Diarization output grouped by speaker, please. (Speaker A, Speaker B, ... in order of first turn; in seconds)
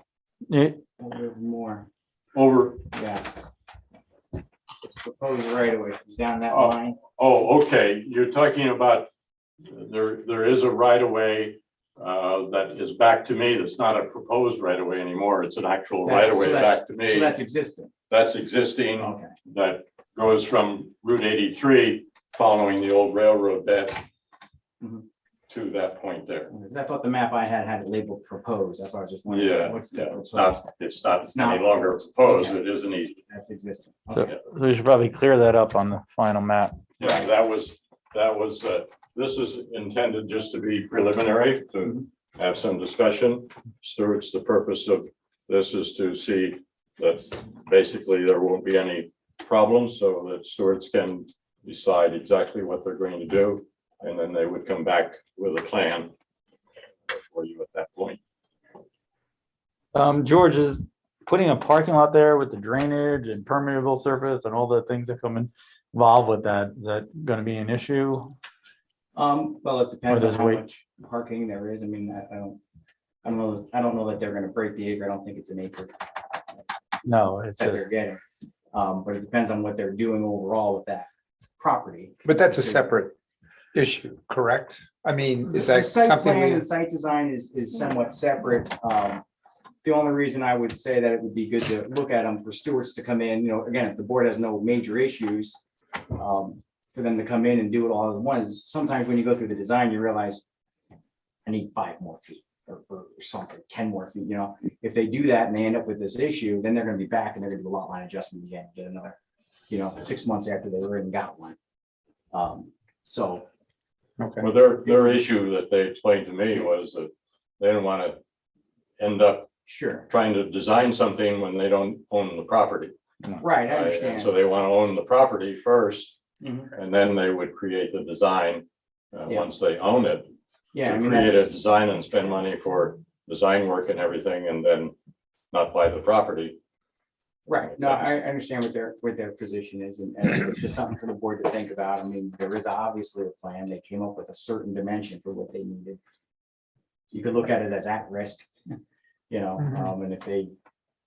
Speaker A: 0.5-0.8, 34.1-36.8, 60.0-68.3, 70.1-70.6, 77.1-77.8
Speaker B: 1.0-1.9, 2.9-3.3, 4.8-7.0, 16.0-17.9, 19.0-19.3, 26.5-32.6, 33.3-34.3, 69.2-72.6, 73.2-75.9, 77.0-78.2, 78.7-82.8, 85.5-89.2, 89.8-95.6, 96.2-100.4, 101.5-109.2, 109.7-111.6, 112.3-113.5, 119.7-120.1, 123.4-124.3, 126.4-126.7, 130.7-131.5, 137.5-146.0, 147.1-148.8, 149.3-150.5
Speaker C: 2.3-2.8, 6.5-9.1, 9.7-17.3, 18.1-24.1, 25.5-26.5, 29.3-33.2, 37.0-56.1, 57.1-58.2, 114.4-118.2, 119.0-119.5, 120.1-123.0, 123.7-126.2, 126.7-130.3, 130.9-134.9, 135.5-136.6, 137.7-138.1
Speaker D: 82.2-83.1, 83.7-86.7, 114.2-114.5